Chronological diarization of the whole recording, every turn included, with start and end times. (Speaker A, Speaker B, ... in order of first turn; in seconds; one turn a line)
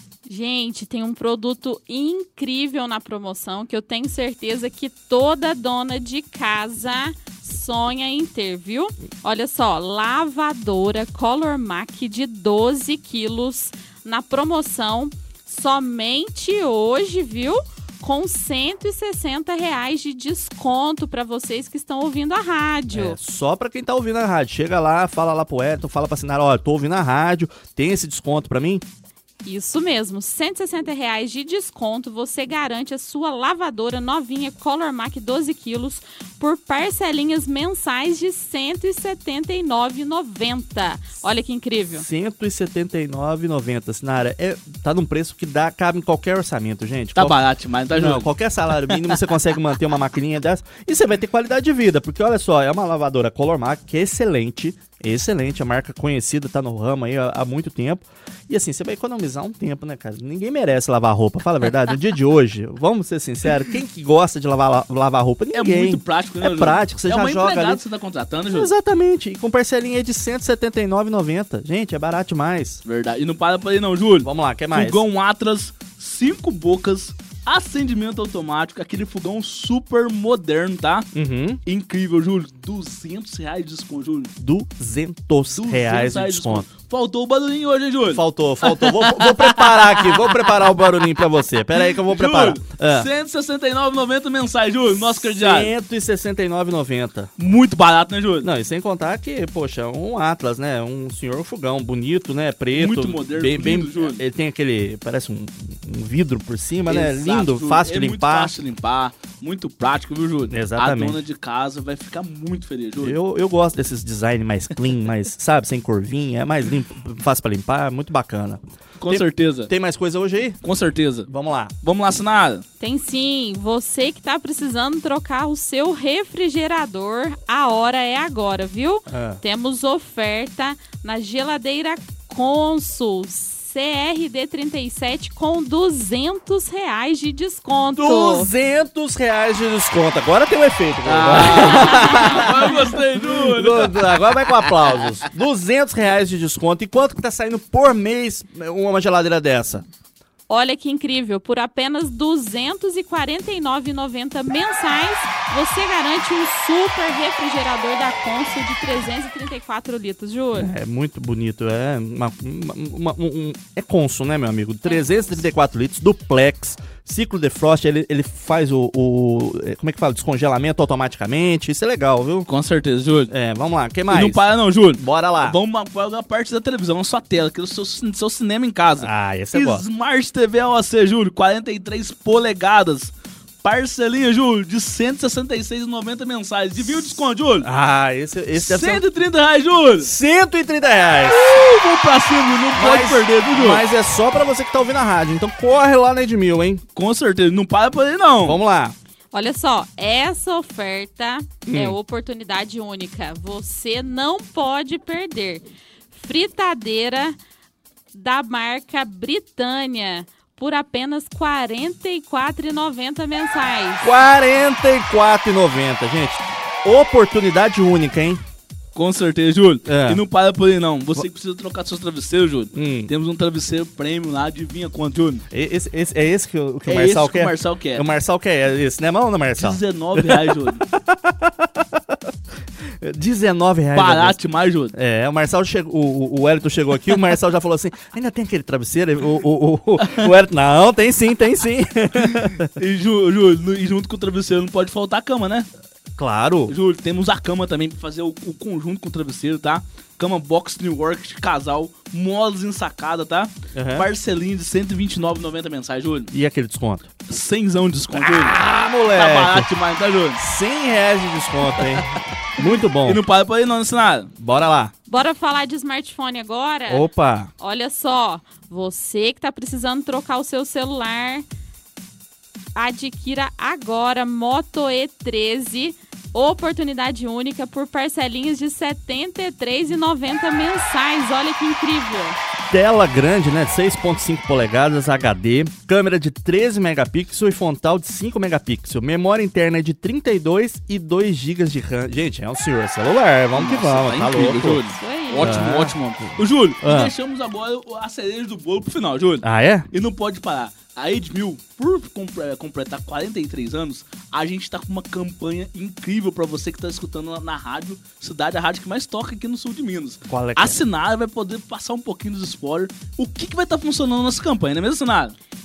Speaker A: 0.3-23.2
Speaker B: 22.9-28.8
Speaker A: 29.4-42.1
Speaker B: 41.9-47.4
Speaker C: 47.1-49.2
Speaker B: 47.9-67.8
Speaker C: 65.5-68.7
Speaker B: 68.5-72.8
Speaker C: 72.8-81.1
Speaker B: 74.2-75.0
Speaker B: 81.1-81.6
Speaker C: 81.6-84.3
Speaker B: 84.4-86.7
Speaker C: 85.6-90.4
Speaker B: 88.1-93.1
Speaker C: 91.9-95.7
Speaker B: 95.0-97.3
Speaker C: 97.4-98.5
Speaker B: 98.4-108.5
Speaker C: 102.7-104.2
Speaker C: 106.9-113.2
Speaker B: 110.5-111.2
Speaker B: 113.0-120.6
Speaker C: 119.0-119.7
Speaker C: 120.6-121.3
Speaker B: 121.3-121.7
Speaker C: 121.8-122.6
Speaker A: 122.8-138.5
Speaker B: 129.1-129.4
Speaker B: 138.0-149.8
Speaker C: 141.1-145.0
Speaker A: 141.7-142.2
Speaker A: 150.5-160.7
Speaker B: 160.6-172.5
Speaker A: 164.9-165.4
Speaker C: 172.5-173.3
Speaker B: 173.3-174.4
Speaker C: 174.1-187.7
Speaker B: 174.9-175.6
Speaker B: 179.0-179.8
Speaker B: 187.6-189.0
Speaker C: 188.6-190.1
Speaker B: 190.0-191.4
Speaker C: 191.2-193.9
Speaker B: 192.8-196.8
Speaker C: 196.9-198.6
Speaker B: 198.4-198.9
Speaker A: 199.3-207.4
Speaker B: 201.7-202.0
Speaker A: 208.1-214.1
Speaker B: 214.0-218.4
Speaker C: 218.9-225.4
Speaker B: 219.9-220.2
Speaker B: 222.7-223.1
Speaker B: 225.5-232.2
Speaker C: 226.9-228.1
Speaker C: 229.6-230.8
Speaker B: 233.0-234.4
Speaker C: 233.9-234.9
Speaker B: 234.9-242.7
Speaker C: 240.0-240.3
Speaker C: 242.2-245.7
Speaker B: 246.2-246.8
Speaker C: 246.7-256.3
Speaker B: 253.7-254.1
Speaker B: 256.3-257.1
Speaker C: 257.3-260.4
Speaker B: 258.1-259.7
Speaker B: 260.4-263.2
Speaker C: 261.8-262.1
Speaker C: 262.6-264.3
Speaker B: 264.4-264.9
Speaker A: 265.1-267.1
Speaker B: 266.9-267.5
Speaker A: 267.6-271.4
Speaker A: 272.8-282.4
Speaker B: 282.7-297.1
Speaker C: 293.6-315.4
Speaker A: 294.9-295.6
Speaker B: 299.4-299.9
Speaker B: 310.3-310.8